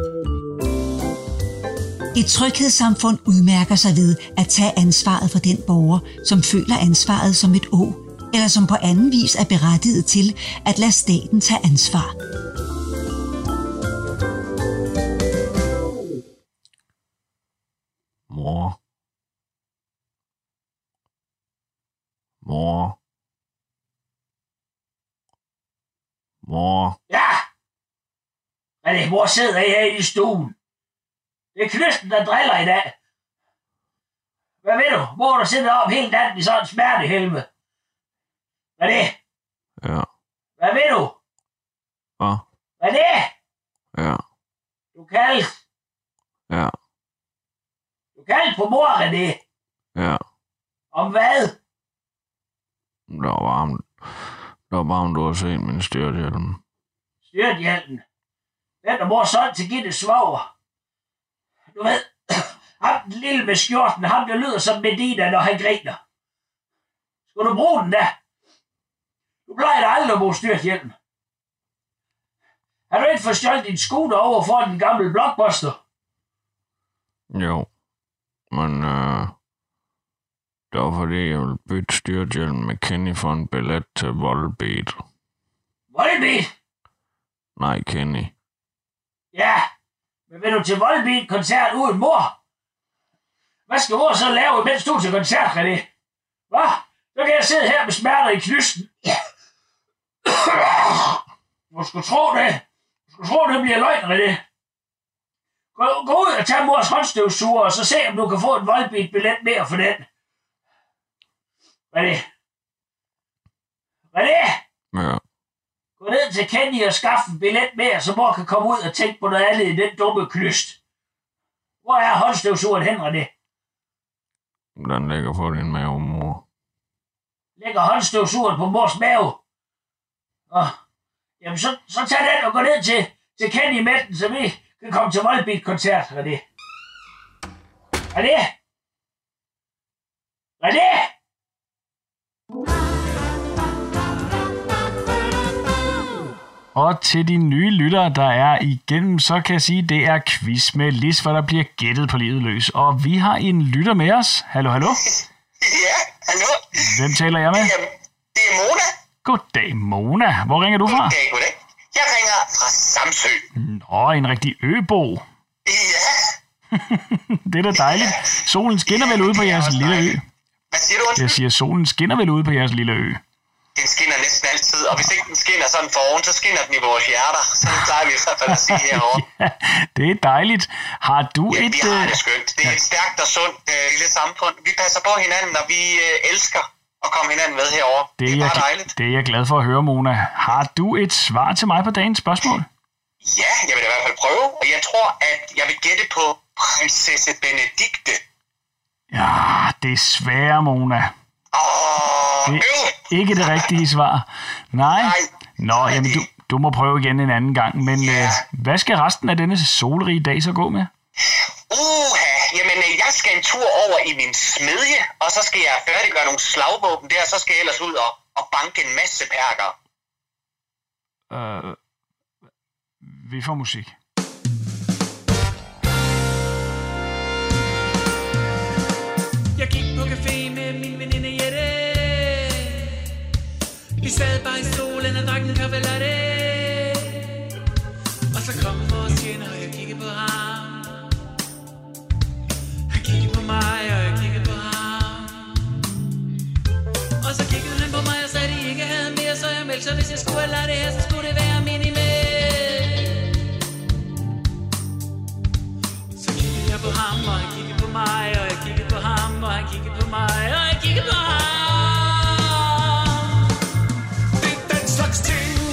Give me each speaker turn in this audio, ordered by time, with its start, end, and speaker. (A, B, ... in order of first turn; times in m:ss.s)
0:02.1-0:12.1 A
0:18.3-0:18.8 B
0:22.4-0:22.9 B
0:26.4-0:27.0 B
0:27.1-0:27.4 C
0:28.8-0:30.6 C
0:31.6-0:32.9 C
0:34.6-0:37.5 C
0:38.8-0:39.2 C
0:40.6-0:41.2 C
0:42.8-0:43.3 C
0:43.9-0:44.2 B
0:44.9-0:45.6 C
0:48.2-0:49.4 C
0:50.0-0:50.2 B
0:50.9-0:51.6 C
0:53.1-0:56.6 B
0:57.2-0:58.0 C
0:58.8-1:00.5 C
1:01.7-1:06.0 C
1:07.3-1:08.2 C
1:09.5-1:10.9 C
1:12.9-1:15.8 C
1:17.3-1:17.7 B
1:18.5-1:19.3 B
1:20.7-1:25.0 B
1:25.9-1:26.5 C
1:27.6-1:28.3 B
1:29.3-1:29.7 C
1:30.3-1:32.3 C
1:33.7-1:35.9 C
1:36.5-1:39.2 C
1:40.2-1:41.2 C
1:41.7-1:44.4 C
1:45.8-1:50.1 C
1:51.9-1:52.2 C
1:54.1-1:54.6 C
1:54.9-1:55.2 B
1:56.0-2:00.8 C
2:01.8-2:03.3 C
2:04.8-2:06.4 B
2:07.6-2:09.4 C
2:10.5-2:10.8 C
2:11.4-2:16.4 C
2:18.1-2:18.5 C
2:20.6-2:21.1 C
2:26.8-2:35.0 D
2:35.6-2:36.8 E
2:36.8-2:37.7 D
2:37.5-2:38.9 E
2:39.2-2:41.2 D
2:40.9-2:43.4 E
2:43.6-2:45.2 D
2:45.7-2:46.3 E
2:46.8-2:50.2 D
2:47.7-2:50.2 E
2:50.7-2:51.4 E
2:51.2-2:53.2 D
2:53.8-2:59.2 E
2:58.5-3:02.8 D
3:01.5-3:08.9 E
3:08.2-3:12.7 D
3:13.3-3:18.2 E
3:19.1-3:21.1 D
3:21.5-3:23.7 E
3:22.4-3:30.9 D
3:24.8-3:25.3 E
3:25.8-3:26.2 E
3:28.0-3:28.4 E
3:31.7-3:39.7 E
3:41.3-3:41.8 D
3:43.0-3:43.9 D
3:49.6-3:53.1 F
3:54.0-3:57.5 F
3:58.3-4:01.1 F
4:02.9-4:05.8 F
4:07.2-4:13.4 F
4:16.1-4:23.5 F